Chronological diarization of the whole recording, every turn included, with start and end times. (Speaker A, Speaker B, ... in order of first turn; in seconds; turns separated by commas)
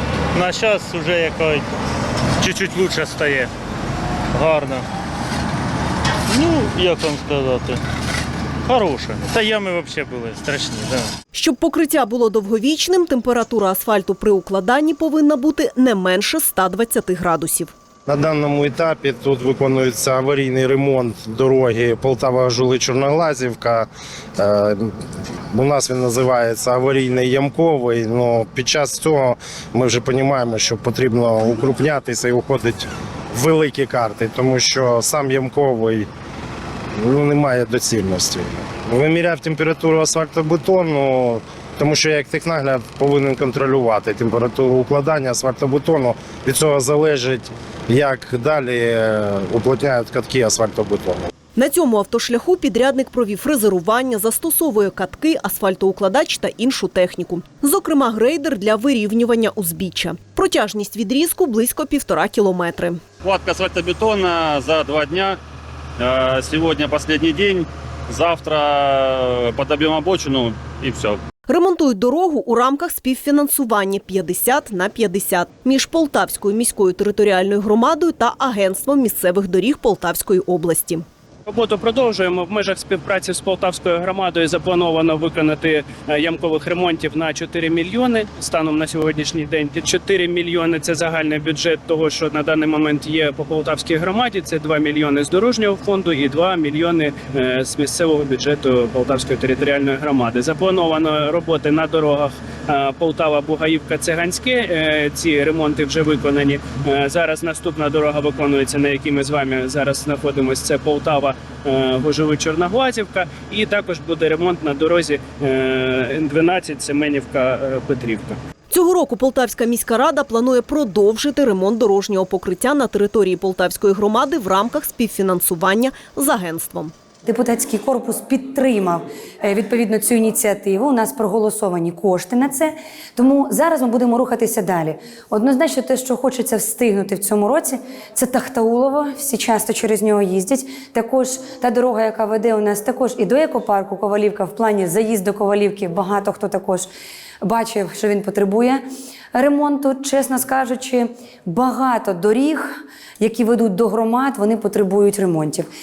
Speaker A: 0.3-1.7, Speaker A: 2.4-3.5, Speaker A: 4.3-4.8, Speaker A: 6.3-7.8, Speaker A: 8.7-11.1, Speaker B: 11.3-17.7, Speaker C: 18.1-25.0, Speaker C: 25.5-36.1, Speaker C: 37.0-51.2, Speaker B: 51.5-63.0, Speaker D: 63.2-65.4, Speaker D: 66.0-71.2, Speaker B: 71.5-81.0, Speaker E: 81.5-118.4, Speaker B: 118.7-126.9, Speaker F: 127.2-146.9, Speaker F: 147.4-148.8, Speaker F: 149.3-152.7, Speaker F: 153.2-155.7